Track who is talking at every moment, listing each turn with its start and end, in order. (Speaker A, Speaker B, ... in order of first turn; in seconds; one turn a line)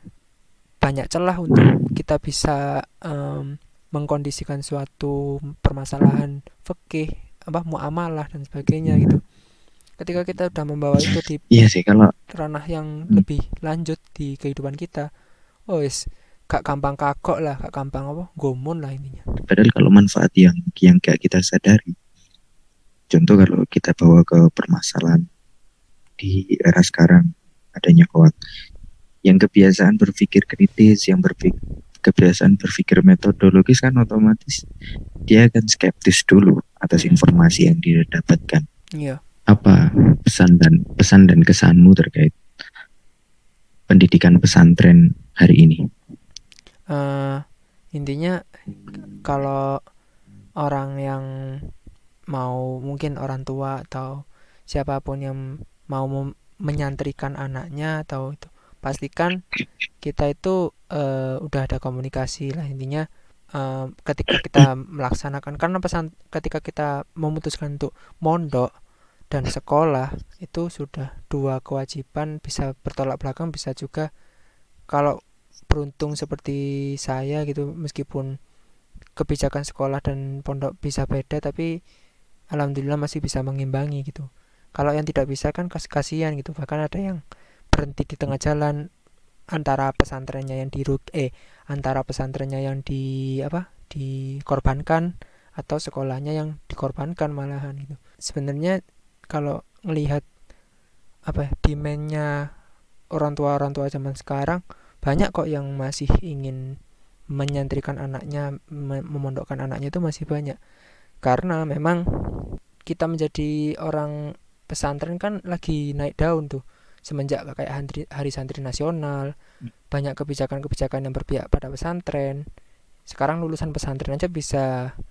Speaker A: 0.8-9.2
Speaker A: 10.0-11.4
Speaker B: 11.5-12.1
Speaker A: 12.3-15.1
Speaker A: 15.7-19.2
Speaker B: 19.5-21.9
Speaker B: 23.1-25.2
Speaker B: 26.2-28.4
Speaker B: 29.3-34.6
Speaker B: 35.3-38.6
Speaker A: 37.0-37.3
Speaker B: 39.5-42.4
Speaker B: 43.9-45.8
Speaker A: 46.9-47.4
Speaker A: 48.0-48.4
Speaker A: 48.9-49.7
Speaker A: 50.6-51.2
Speaker A: 52.4-55.4
Speaker A: 55.9-59.4
Speaker A: 60.0-63.0
Speaker A: 63.6-68.7
Speaker B: 64.3-64.6
Speaker A: 69.3-74.1
Speaker A: 74.9-75.2
Speaker A: 75.7-78.3
Speaker A: 79.2-81.7
Speaker A: 82.5-87.2
Speaker A: 87.7-88.8
Speaker A: 89.5-98.8
Speaker A: 99.3-100.2
Speaker A: 101.3-102.3
Speaker A: 103.2-106.6
Speaker A: 107.4-110.6
Speaker A: 111.2-114.1
Speaker A: 114.7-119.3
Speaker A: 119.9-122.4
Speaker A: 123.1-124.9